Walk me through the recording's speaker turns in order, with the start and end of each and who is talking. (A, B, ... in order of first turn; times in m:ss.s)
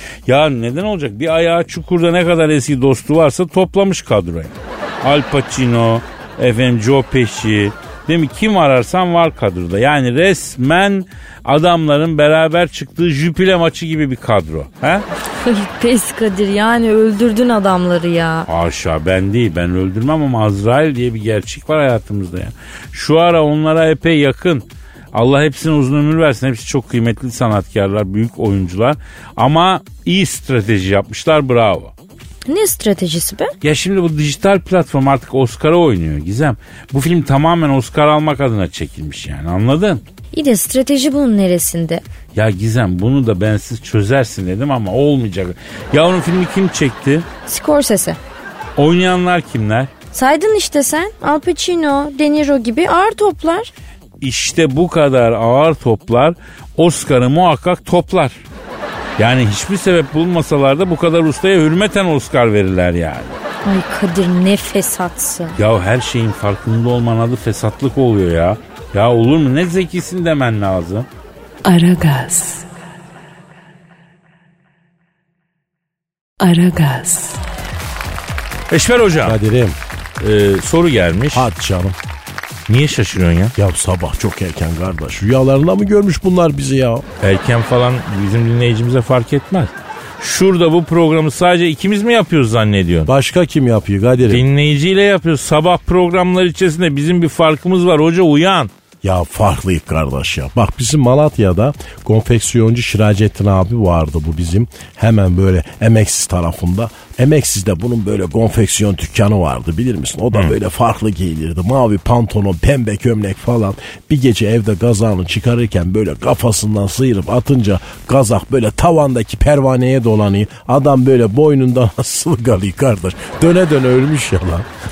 0:00.3-0:15.1 A
0:15.4-0:18.5 B
0:18.5-0:31.9 A
0:32.5-0:33.5 B
0:33.6-0:40.0 A
0:40.3-0:42.0 B
0:42.3-0:47.3 A
0:47.5-0:48.2 B
0:48.8-0:49.9 A
0:50.1-0:53.7 B
0:54.2-0:58.4 A
0:59.2-1:03.4 A
1:03.6-1:05.6 B
1:05.6-1:11.1 A
1:11.6-1:12.7 C
1:16.4-1:17.4 C
1:18.7-1:19.4 D
1:19.2-1:19.8 E
1:20.2-1:21.5 D
1:21.3-1:22.0 E
1:22.7-1:23.5 D
1:23.6-1:27.0 E
1:27.2-1:33.1 D
1:33.1-1:34.4 E
1:34.3-1:38.7 D
1:39.0-2:04.7 E